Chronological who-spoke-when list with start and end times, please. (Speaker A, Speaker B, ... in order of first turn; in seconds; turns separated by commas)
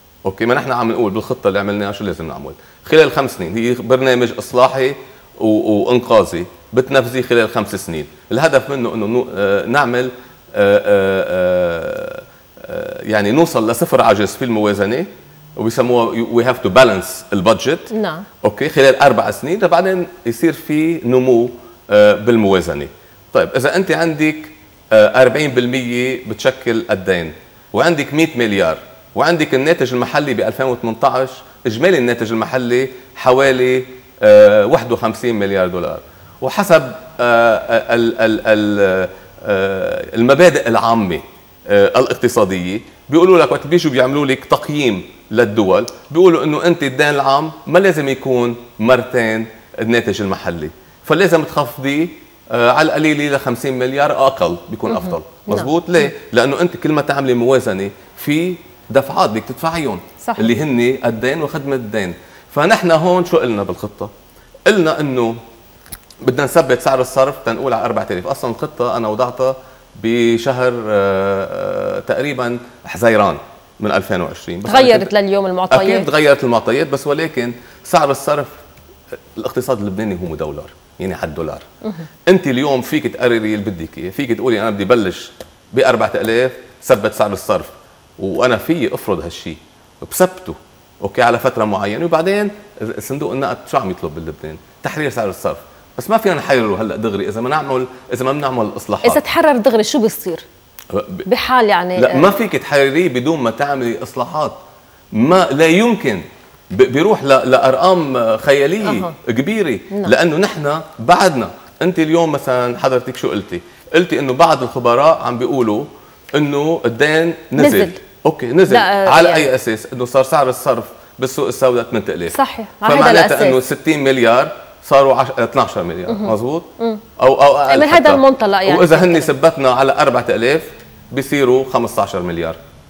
Speaker A: 0.2-64.1, Speaker B: 17.9-18.2, Speaker B: 54.9-55.7, Speaker B: 60.2-60.5, Speaker A: 64.7-65.3, Speaker A: 66.2-75.1, Speaker B: 74.7-76.1, Speaker A: 75.7-78.5, Speaker A: 79.3-81.7, Speaker A: 82.2-99.2, Speaker B: 99.0-100.4, Speaker A: 100.9-101.2, Speaker B: 101.2-102.3, Speaker A: 102.0-104.5, Speaker A: 105.1-132.6, Speaker B: 108.8-109.1, Speaker B: 117.6-118.0, Speaker B: 118.7-119.5, Speaker B: 122.3-123.6, Speaker B: 127.7-129.3